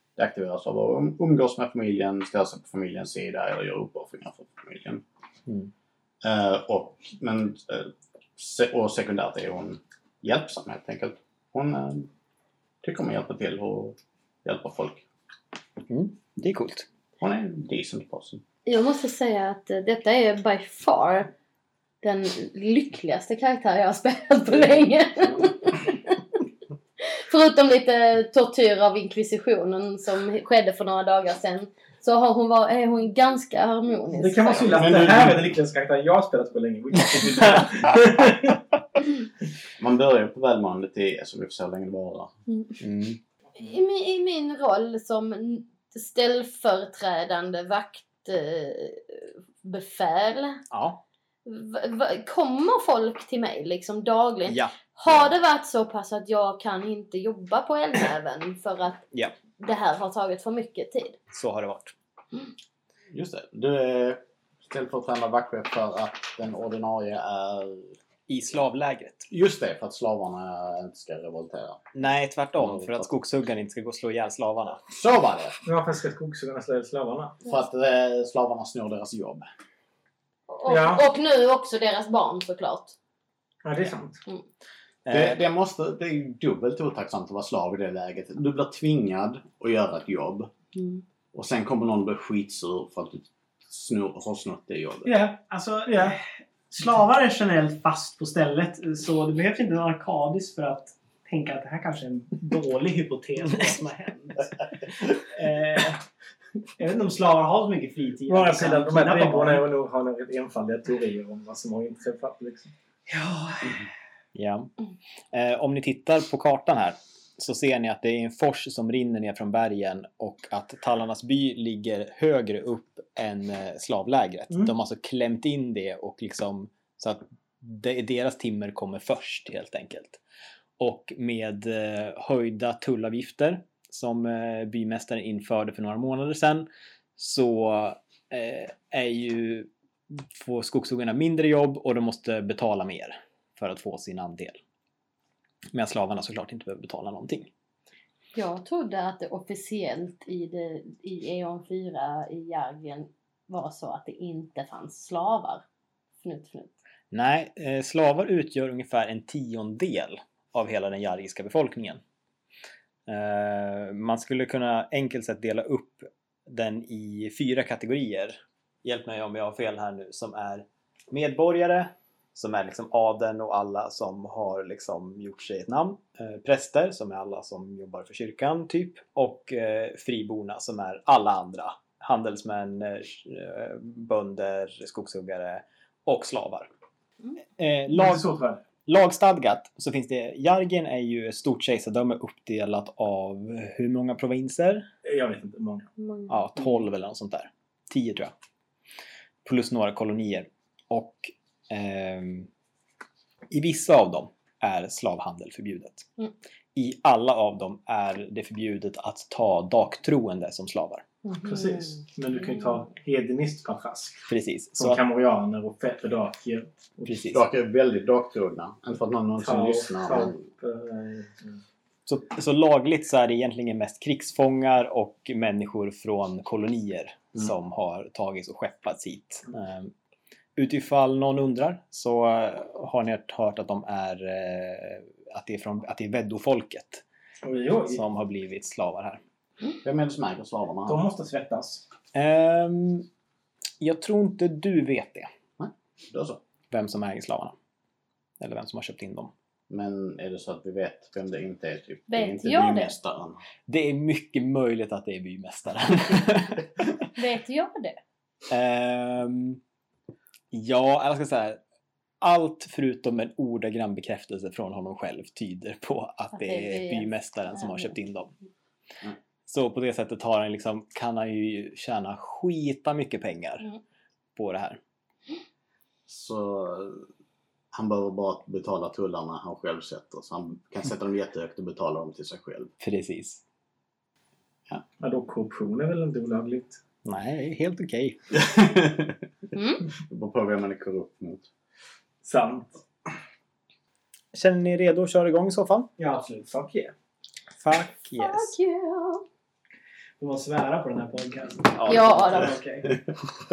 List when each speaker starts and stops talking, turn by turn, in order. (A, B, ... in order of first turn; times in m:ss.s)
0:00.2-0:05.0 A
0:06.2-0:12.1 A
0:12.8-0:15.0 A
0:15.9-0:16.8 B
0:17.2-0:18.4 A
0:18.6-0:21.3 C
0:22.0-0:26.2 C
0:27.0-0:35.0 C
0:34.1-0:38.6 D
0:34.6-0:35.5 A
0:39.8-0:42.3 A
0:42.5-0:42.8 C
0:42.8-0:43.2 B
0:43.6-0:50.6 C
0:50.7-0:51.0 B
0:51.4-0:59.0 C
0:54.4-0:55.3 B
0:59.6-1:01.2 C
1:01.3-1:01.9 B
1:03.1-1:08.0 A
1:08.3-1:09.3 B
1:09.3-1:11.9 A
1:11.9-1:14.8 B
1:12.6-1:13.1 A
1:14.9-1:15.6 A
1:15.6-1:17.4 D
1:17.4-1:19.5 A
1:20.5-1:22.9 C
1:20.7-1:21.0 D
1:23.6-1:24.2 D
1:25.0-1:25.4 B
1:25.1-1:30.5 A
1:30.7-1:31.0 C
1:31.3-1:35.2 A
1:35.0-1:36.2 D
1:35.4-1:46.0 E
1:46.8-1:49.6 E
1:48.3-1:52.7 D
1:53.1-1:53.8 E
1:54.3-1:54.7 B
1:55.3-2:10.2 B
2:10.8-2:19.7 B
2:20.3-2:24.6 B
2:25.7-2:27.5 B
2:28.3-2:35.6 C
2:36.2-2:36.7 C
2:37.1-2:42.0 B
2:43.1-3:06.7 B
3:07.6-3:08.2 B
3:07.9-3:08.6 D
3:08.8-3:14.9 B
3:15.0-3:15.9 D
3:16.0-3:16.3 C
3:16.3-3:18.3 B
3:19.4-3:22.5 B
3:23.5-3:26.1 B
3:26.7-3:31.0 B
3:31.2-3:31.8 C
3:31.4-3:34.2 D
3:34.3-3:35.0 B
3:34.8-3:37.2 D
3:37.0-3:37.4 B
3:37.3-3:40.4 A
3:39.4-3:41.6 D
3:42.0-3:49.9 B
3:50.6-3:57.0 B
3:57.4-3:58.0 D
3:57.9-3:59.2 B
3:59.8-4:01.0 A
4:00.8-4:01.8 D
4:02.1-4:03.1 B
4:03.8-4:05.3 B
4:05.6-4:06.4 A
4:06.7-4:07.5 B
4:08.4-4:09.3 B
4:09.7-4:13.4 A
4:12.1-4:12.9 C
4:13.7-4:16.6 B
4:17.1-4:18.0 C
4:18.5-4:19.6 B
4:20.5-4:21.6 B
4:22.2-4:28.3 B
4:26.3-4:27.9 C
4:29.5-4:33.6 B
4:34.3-4:34.8 B
4:36.1-4:37.0 A
4:37.7-4:42.7 A
4:42.8-4:43.4 B
4:45.0-4:46.8 D
4:47.0-4:48.2 B
4:48.3-4:49.2 A
4:49.5-4:49.8 C
4:50.0-4:51.5 A
4:52.2-4:52.8 D
4:54.3-4:55.9 B
4:56.0-4:56.9 D
4:57.6-4:58.6 B
4:58.2-4:59.2 C
5:00.2-5:02.9 E
5:01.8-5:02.3 B
5:01.8-5:02.6 C